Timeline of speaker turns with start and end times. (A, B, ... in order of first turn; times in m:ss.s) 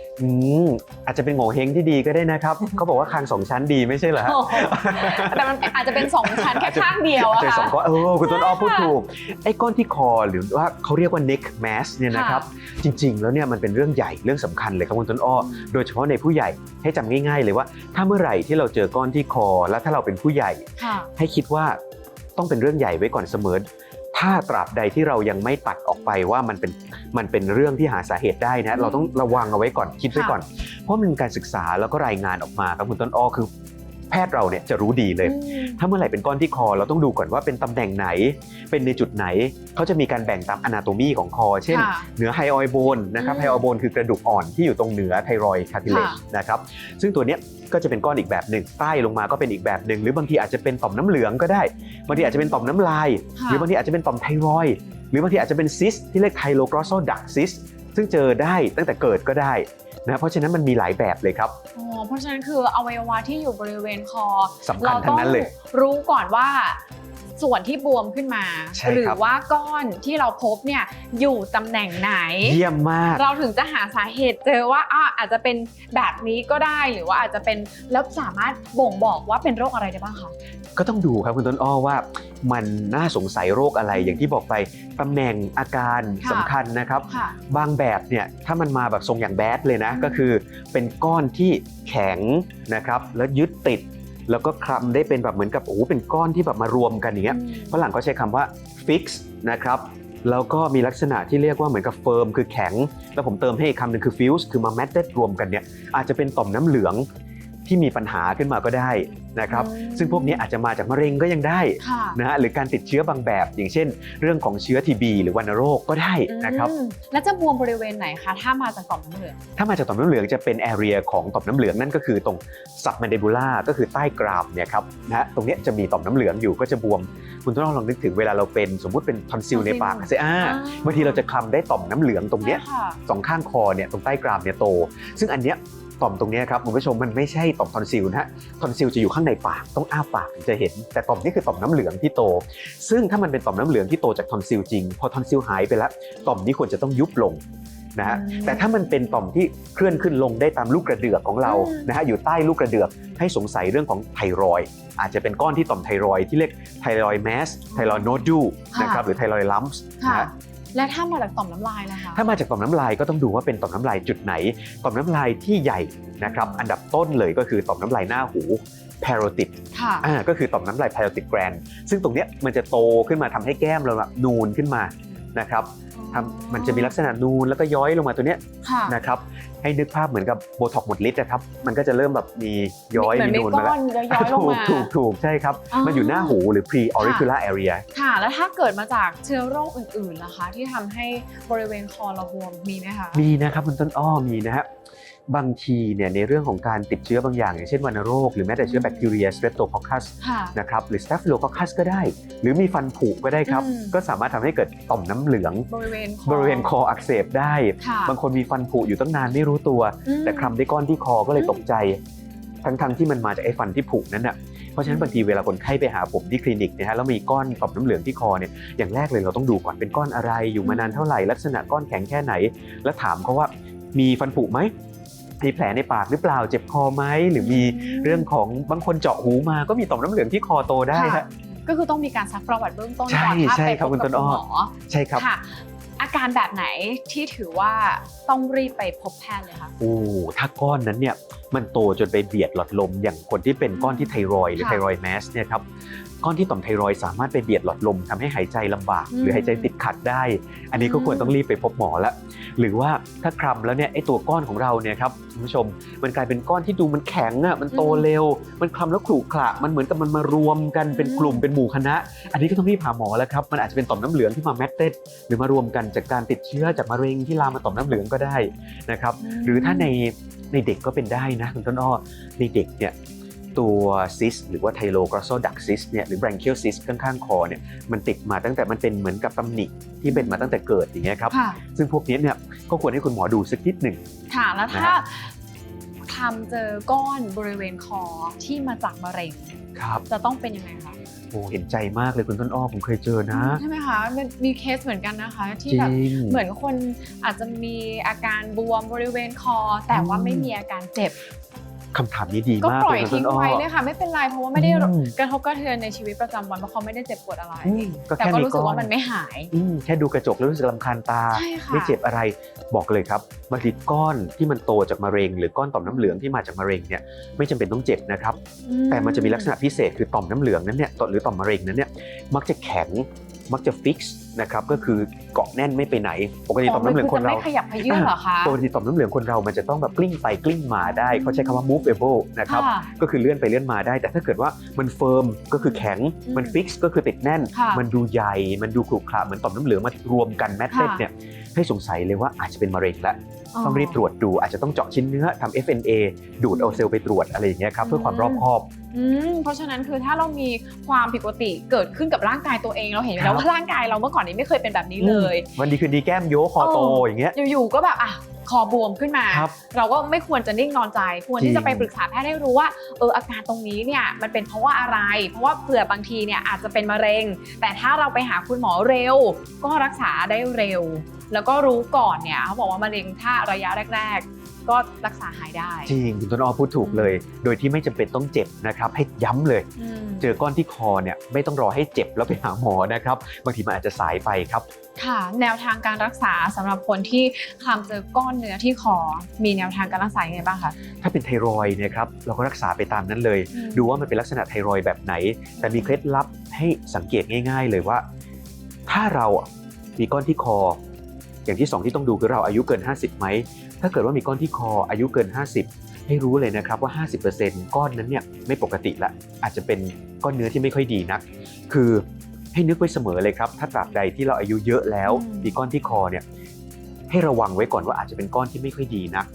0:00.2-0:21.8 A
0:04.2-0:08.9 B
0:12.1-0:12.4 B
0:15.4-0:15.7 B
0:20.8-0:21.1 B
0:22.4-0:33.5 A
0:28.7-0:29.2 B
0:30.1-0:30.4 B
0:34.1-1:01.6 A
0:35.2-0:35.8 B
0:41.7-0:42.1 B
0:43.2-0:43.6 B
0:45.9-0:46.2 B
0:52.1-0:52.6 B
0:53.4-0:53.7 B
1:01.8-1:06.8 B
1:04.6-1:05.5 A
1:07.4-1:12.6 B
1:08.8-1:09.2 A
1:12.4-1:13.2 A
1:13.2-1:20.3 B
1:20.8-1:47.0 A
1:23.9-1:24.3 B
1:26.2-1:26.5 B
1:27.1-1:27.4 B
1:29.9-1:30.3 B
1:37.3-1:37.8 B
1:47.7-1:56.7 A
1:49.5-1:50.5 B
1:51.8-1:52.2 B
1:56.3-1:59.4 B
1:59.6-2:27.4 A
2:09.5-2:11.2 B
2:12.4-2:13.0 B
2:28.0-2:40.3 A
2:28.0-2:29.0 B
2:31.4-2:31.9 B
2:37.7-2:39.0 B
2:40.0-2:42.2 B
2:42.1-3:07.8 A
2:46.2-2:46.7 B
2:49.7-2:50.1 B
2:56.0-2:57.0 B
2:58.6-2:59.0 B
3:03.0-3:04.9 B
3:05.7-3:06.4 B
3:07.0-3:07.3 B
3:07.9-3:13.2 B
3:13.1-3:14.7 A
3:15.3-3:25.7 A
3:18.6-3:19.1 B
3:20.2-3:20.6 B
3:23.5-3:24.0 B
3:25.7-3:26.7 B
3:26.3-3:32.0 A
3:27.8-3:28.2 B
3:30.1-3:30.6 B
3:31.4-3:31.6 B
3:32.6-3:44.7 A
3:34.9-3:35.3 B
3:40.6-3:41.1 B
3:45.4-3:51.3 A
3:47.4-3:48.3 B
3:50.9-3:59.7 B
3:53.1-3:55.2 A
3:59.8-4:05.6 A
4:03.8-4:04.8 B
4:06.2-4:33.0 A
4:09.1-4:09.7 B
4:10.7-4:11.4 B
4:17.7-4:18.0 B
4:20.9-4:21.5 B
4:29.2-4:29.9 B
4:33.6-4:44.0 A
4:40.1-4:40.6 B
4:41.3-4:41.6 B
4:44.3-4:45.3 B
4:44.7-4:45.0 A
4:46.1-4:49.5 B
4:49.8-4:50.0 A
4:50.1-4:51.0 B
4:51.3-4:53.6 A
4:53.3-5:01.2 B
4:55.7-4:56.4 A
4:59.9-5:00.5 A
5:01.9-5:03.6 A
5:02.6-5:09.5 B
5:04.6-5:05.1 A
5:07.6-5:08.9 A
5:09.5-5:18.4 A
5:11.3-5:12.0 B
5:15.9-5:16.2 B
5:18.7-5:19.5 B
5:18.9-5:48.7 A
5:26.6-5:28.6 B
5:30.9-5:31.6 B
5:32.5-5:32.9 B
5:35.6-5:36.6 B
5:37.5-5:37.8 B
5:40.7-5:41.0 B
5:43.5-5:44.0 B
5:46.5-5:46.9 B
5:47.8-5:55.5 B
5:53.2-5:53.5 A
5:55.0-5:57.4 A
5:56.6-6:15.9 B
6:01.4-6:01.9 A
6:15.9-6:19.7 A
6:16.8-6:17.2 B
6:19.8-6:20.3 B
6:20.2-6:24.6 A
6:25.0-6:30.8 B
6:31.0-6:38.0 A
6:33.5-6:34.0 B
6:35.6-6:36.0 B
6:38.9-6:40.8 A
6:41.5-6:56.2 A
6:55.1-6:55.5 B
6:57.1-6:59.3 A